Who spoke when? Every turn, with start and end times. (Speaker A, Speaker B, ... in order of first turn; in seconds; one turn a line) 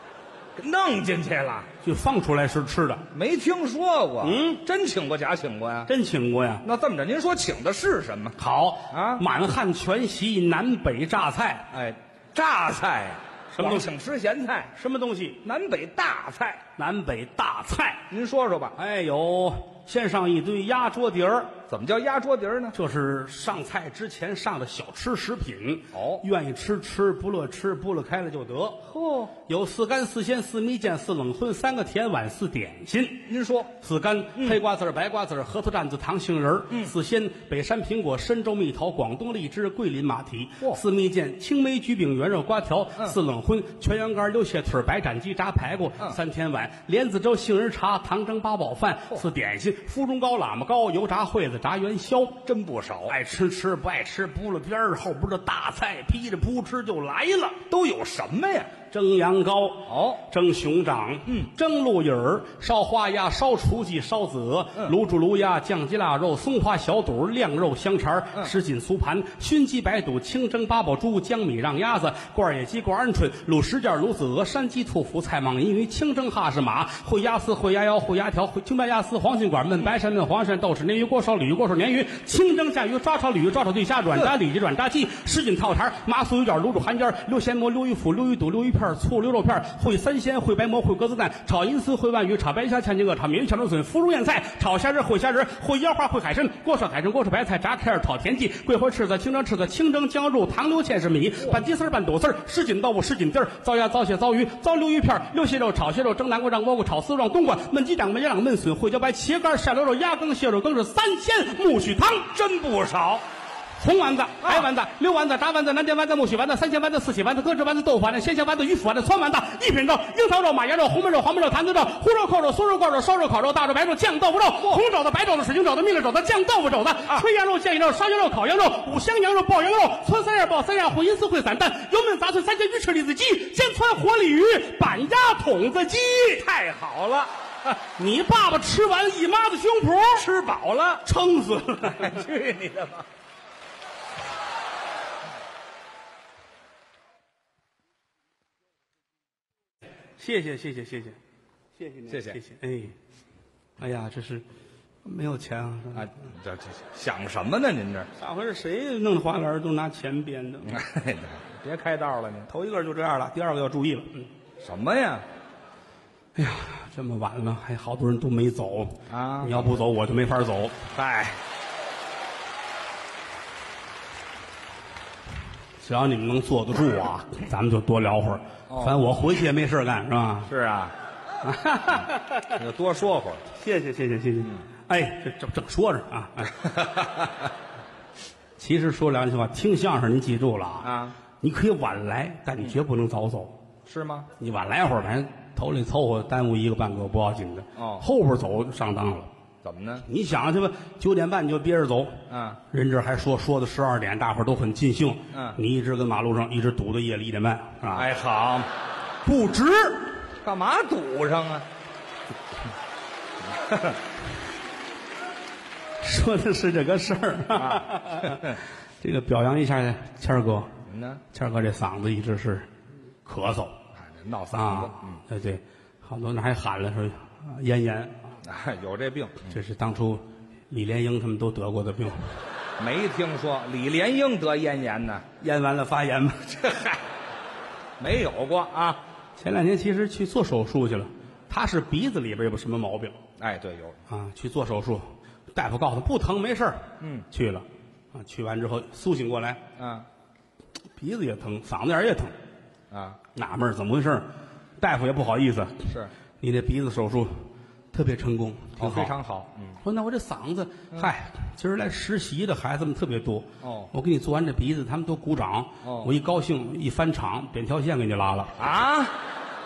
Speaker A: 0.6-1.7
Speaker B: 1.8-3.0
Speaker A: 3.1-5.9
Speaker B: 4.2-4.6
Speaker B: 5.9-6.6
Speaker A: 6.6-8.3
Speaker B: 8.4-11.7
Speaker A: 8.9-9.2
Speaker A: 11.7-14.7
Speaker B: 13.5-13.9
Speaker B: 14.7-15.4
Speaker A: 15.4-16.6
Speaker B: 16.8-18.0
Speaker A: 18.1-18.8
Speaker B: 18.8-21.5
Speaker A: 21.7-22.7
Speaker B: 22.7-28.8
Speaker A: 25.9-26.2
Speaker A: 28.9-29.3
Speaker B: 29.5-33.2
Speaker A: 33.3-33.7
Speaker B: 33.8-52.4
Speaker A: 52.4-53.1
Speaker B: 53.1-57.6
Speaker A: 57.7-58.7
Speaker B: 58.9-112.3
Speaker A: 59.9-60.2
Speaker A: 112.3-113.2
Speaker B: 113.8-136.4
Speaker A: 114.4-114.7
Speaker A: 136.3-137.7
Speaker B: 138.0-140.3
Speaker A: 140.1-141.0
Speaker B: 141.0-142.1
Speaker A: 141.8-143.1
Speaker B: 150.2-151.2
Speaker B: 151.8-152.9
Speaker A: 152.1-152.4
Speaker B: 153.8-154.4
Speaker B: 155.0-156.1
Speaker A: 155.9-158.1
Speaker B: 158.2-160.8
Speaker A: 160.6-162.5
Speaker B: 162.5-164.3
Speaker A: 164.6-165.2
Speaker B: 166.3-170.8
Speaker A: 169.1-169.8
Speaker A: 170.9-171.4
Speaker B: 175.8-180.5
Speaker A: 178.7-179.0
Speaker A: 180.4-180.9
Speaker B: 181.4-182.5
Speaker A: 182.5-183.4
Speaker B: 183.5-186.6
Speaker A: 186.6-187.3
Speaker B: 188.6-193.5
Speaker A: 190.8-191.2
Speaker A: 193.8-194.3
Speaker B: 194.4-199.3
Speaker A: 197.8-198.0
Speaker A: 199.6-200.1
Speaker B: 200.1-208.1
Speaker A: 202.3-202.6
Speaker A: 205.3-205.6
Speaker A: 207.9-208.7
Speaker B: 209.2-210.1
Speaker A: 210.4-211.7
Speaker A: 213.5-214.0
Speaker B: 216.0-220.7
Speaker A: 217.5-218.6
Speaker A: 220.9-221.2
Speaker B: 221.3-222.7
Speaker B: 223.2-223.7
Speaker A: 223.9-225.2
Speaker B: 224.5-228.3
Speaker A: 228.4-229.5
Speaker B: 229.5-232.3
Speaker A: 232.8-235.2
Speaker B: 235.4-236.6
Speaker A: 236.5-237.0
Speaker A: 238.0-239.0
Speaker B: 239.4-243.2
Speaker A: 243.4-244.0
Speaker B: 244.1-249.6
Speaker A: 247.0-247.2
Speaker A: 249.8-250.1
Speaker B: 251.0-252.3
Speaker A: 252.9-253.2
Speaker B: 253.3-254.3
Speaker B: 254.8-255.9
Speaker B: 256.4-257.4
Speaker B: 257.9-259.1
Speaker A: 258.8-259.8
Speaker B: 259.8-268.6
Speaker A: 263.6-263.9
Speaker A: 265.8-266.1
Speaker A: 268.6-269.2